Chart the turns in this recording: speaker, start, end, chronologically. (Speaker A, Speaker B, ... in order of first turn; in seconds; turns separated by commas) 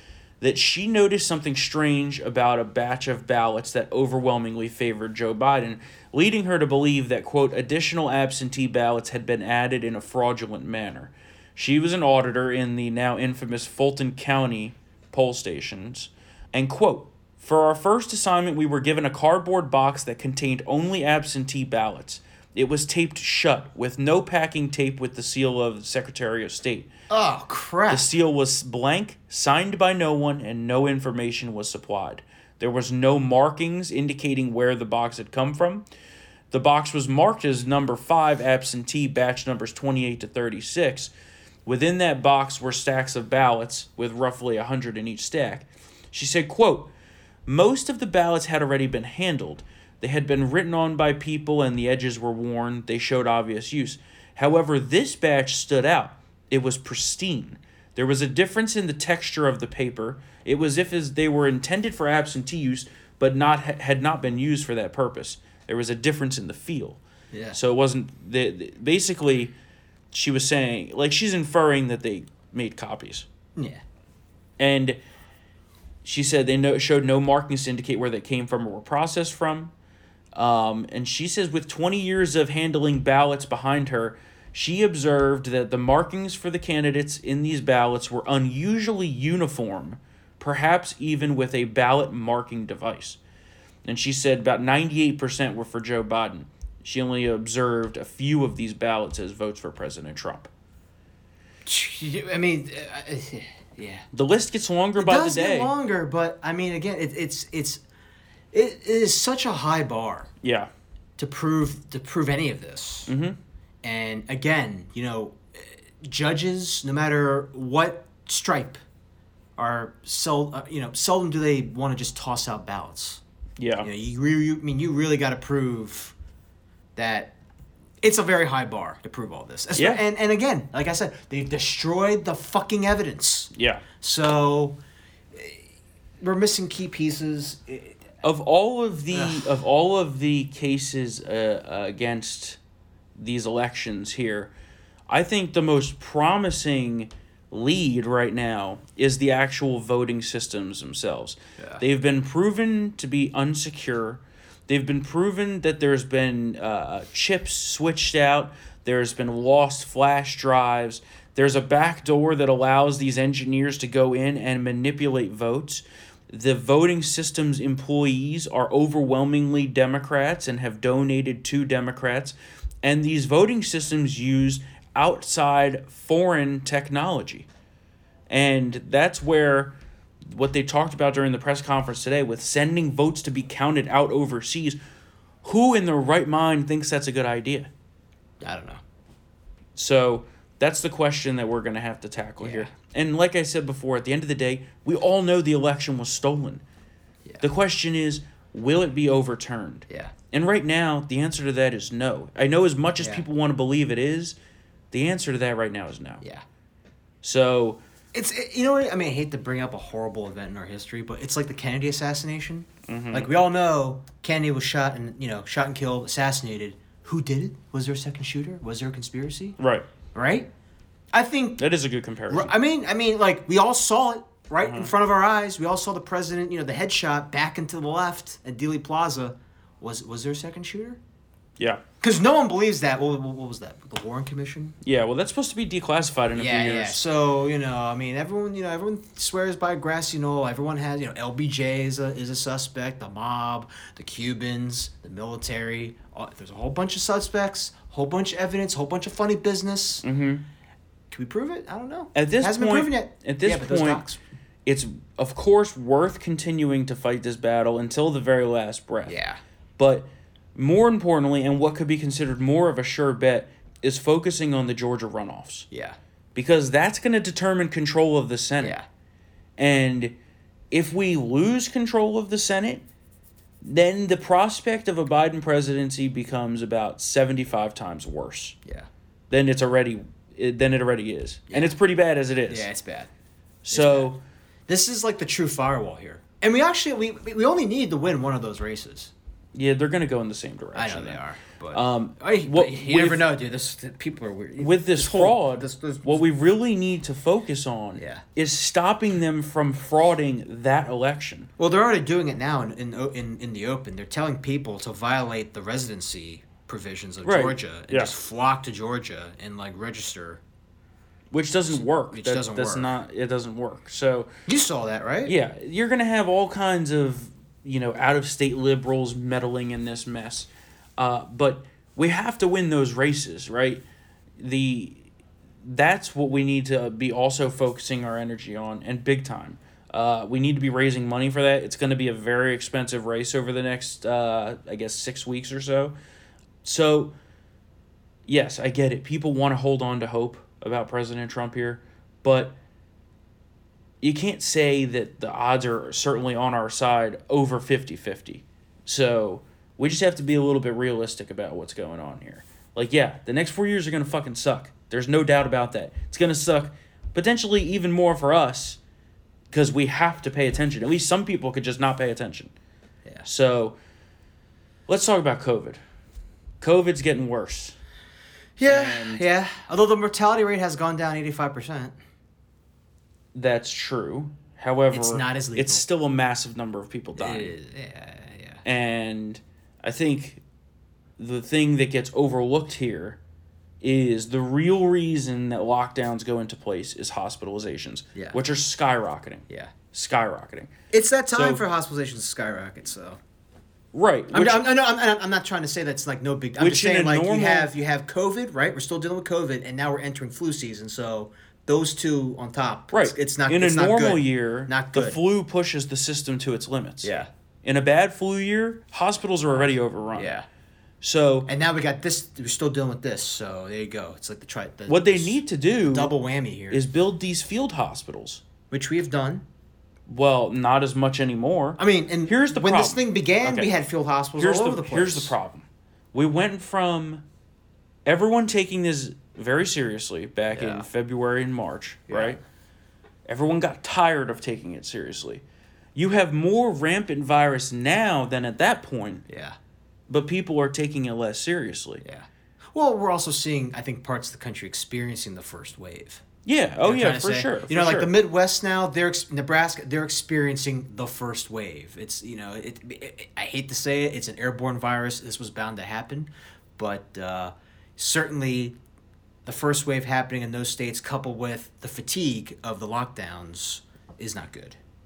Speaker A: 0.4-26.9, Speaker B: 27.1-28.1, Speaker A: 27.9-35.8, Speaker A: 36.5-41.1, Speaker A: 41.7-46.9, Speaker A: 47.5-67.0, Speaker B: 67.3-67.6, Speaker A: 67.5-69.5, Speaker A: 70.1-73.3, Speaker B: 73.6-73.8, Speaker A: 74.6-75.0, Speaker A: 76.0-79.7, Speaker A: 80.3-93.2, Speaker A: 93.8-100.5, Speaker B: 101.7-104.1, Speaker A: 104.1-105.7, Speaker B: 105.0-107.8, Speaker B: 108.5-110.3, Speaker A: 110.4-110.7, Speaker B: 111.2-113.1, Speaker A: 113.1-113.4, Speaker B: 113.8-118.8, Speaker B: 119.6-123.2, Speaker A: 123.6-123.9, Speaker B: 123.8-126.1, Speaker B: 127.0-127.3, Speaker B: 128.0-134.8, Speaker A: 129.7-130.0, Speaker A: 133.5-133.8, Speaker B: 135.3-135.6, Speaker B: 136.2-138.0, Speaker A: 138.2-142.6, Speaker B: 139.1-139.5, Speaker A: 143.2-144.5, Speaker A: 145.1-177.5, Speaker A: 178.3-184.8, Speaker A: 185.4-187.7, Speaker B: 188.4-188.8, Speaker A: 189.8-196.6, Speaker B: 192.4-192.7, Speaker A: 197.4-204.4, Speaker B: 203.0-203.3, Speaker A: 204.9-206.2, Speaker A: 207.2-207.8, Speaker B: 208.1-219.6, Speaker A: 212.9-213.3, Speaker A: 219.6-219.9, Speaker B: 220.1-220.5, Speaker B: 221.1-221.6, Speaker A: 221.6-222.5, Speaker B: 222.3-231.0, Speaker A: 224.6-224.9, Speaker B: 232.0-234.8, Speaker A: 234.8-237.0, Speaker B: 236.3-250.1, Speaker A: 250.0-250.4, Speaker B: 251.1-254.2, Speaker A: 252.1-254.0, Speaker A: 254.7-259.2, Speaker B: 259.1-259.4, Speaker A: 259.8-265.7, Speaker B: 265.7-266.0, Speaker A: 266.4-268.8, Speaker A: 269.6-270.1, Speaker A: 270.7-272.8, Speaker A: 273.6-278.6, Speaker A: 279.3-282.7, Speaker B: 281.5-281.8, Speaker B: 282.5-283.1, Speaker A: 283.6-284.2, Speaker B: 283.7-289.1, Speaker A: 289.6-293.3, Speaker B: 290.8-296.2, Speaker A: 294.6-301.5, Speaker B: 298.0-298.2, Speaker B: 301.6-310.4, Speaker A: 307.2-308.1, Speaker A: 311.3-314.3, Speaker B: 311.7-312.9, Speaker B: 314.5-315.3, Speaker A: 315.3-323.8, Speaker A: 324.4-325.1, Speaker A: 325.6-336.0, Speaker A: 336.6-337.1, Speaker A: 338.3-342.6, Speaker A: 344.0-358.8, Speaker A: 359.5-362.5, Speaker A: 363.2-363.8, Speaker A: 364.9-365.8, Speaker A: 366.6-367.8, Speaker B: 368.6-371.9, Speaker A: 368.6-369.2, Speaker A: 373.4-377.5, Speaker B: 374.9-375.8, Speaker B: 377.2-378.6, Speaker A: 378.6-380.4, Speaker A: 381.2-383.2, Speaker A: 383.8-390.7, Speaker B: 390.9-393.2, Speaker A: 391.3-391.6, Speaker A: 393.9-394.7, Speaker B: 394.3-405.2, Speaker A: 396.6-397.7, Speaker A: 402.9-407.1, Speaker B: 407.0-407.3, Speaker A: 407.6-410.3, Speaker B: 410.1-410.5, Speaker A: 411.0-411.5, Speaker B: 411.5-416.8, Speaker A: 414.9-416.1, Speaker A: 416.7-418.4, Speaker B: 418.7-419.4, Speaker A: 420.1-423.7, Speaker B: 421.8-425.3, Speaker A: 424.4-427.2, Speaker A: 428.1-432.4, Speaker B: 430.5-430.9, Speaker B: 432.1-432.4, Speaker A: 433.3-435.4, Speaker A: 435.9-439.2, Speaker B: 439.3-439.6, Speaker A: 440.1-442.0, Speaker B: 442.0-446.2, Speaker A: 446.4-448.1, Speaker B: 446.8-458.8, Speaker B: 459.5-464.8